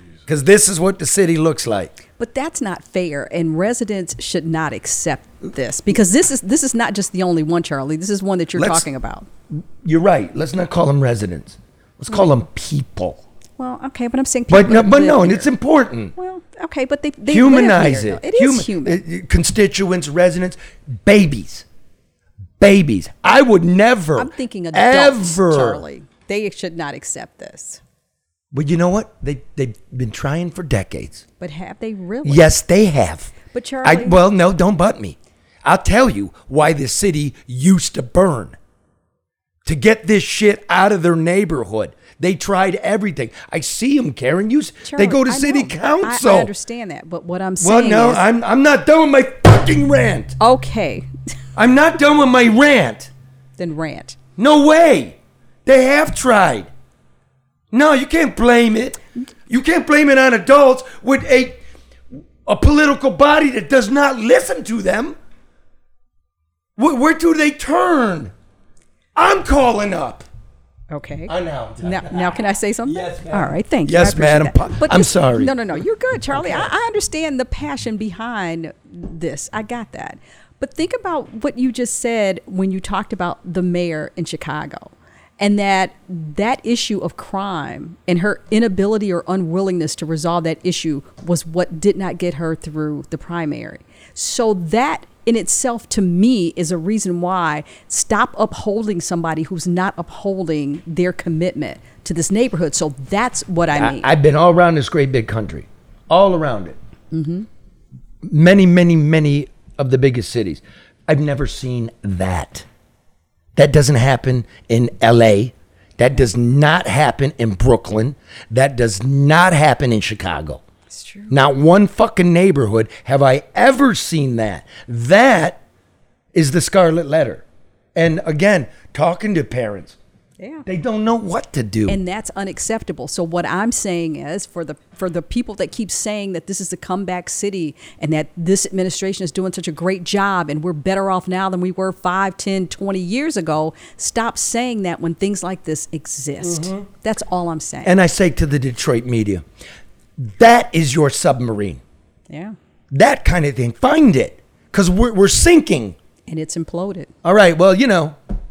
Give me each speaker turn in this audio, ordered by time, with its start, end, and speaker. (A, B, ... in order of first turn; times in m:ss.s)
0:00.3-0:01.9 A
0:02.2-0:09.3 B
0:08.6-0:08.9 A
0:09.5-0:13.2 A
0:13.6-0:15.5 B
0:14.5-0:16.1 A
0:16.2-0:19.0 B
0:17.3-0:21.6 A
0:22.6-0:25.8 A
0:24.2-0:27.8 B
0:28.5-0:31.2 A
0:31.4-0:32.5 B
0:32.2-0:33.3 A
0:33.5-0:34.2 B
0:33.8-0:38.6 A
0:39.6-0:46.5 A
0:44.8-0:48.2 B
0:47.6-0:50.4 A
0:50.4-0:51.1 B
0:51.6-0:53.1 A
0:53.6-0:54.2 B
0:54.4-0:56.7 A
0:57.7-1:01.6 A
1:02.4-1:05.2 A
1:06.8-1:08.3 A
1:09.2-1:10.3 A
1:10.9-1:44.1 B
1:11.3-1:15.5 A
1:16.3-1:16.7 A
1:43.7-1:46.8 A
1:47.1-1:47.5 B
1:48.2-1:52.7 A
1:53.6-2:00.6 A
2:00.9-2:01.3 B
2:01.3-2:05.6 A
2:06.3-2:10.0 A
2:10.4-2:10.6 B
2:10.7-2:12.0 A
2:11.9-2:28.0 B
2:26.4-2:26.9 A
2:27.8-2:29.4 A
2:30.2-2:31.8 A
2:32.3-2:32.6 B
2:32.9-2:36.0 A
2:36.3-2:37.1 B
2:37.2-2:38.2 A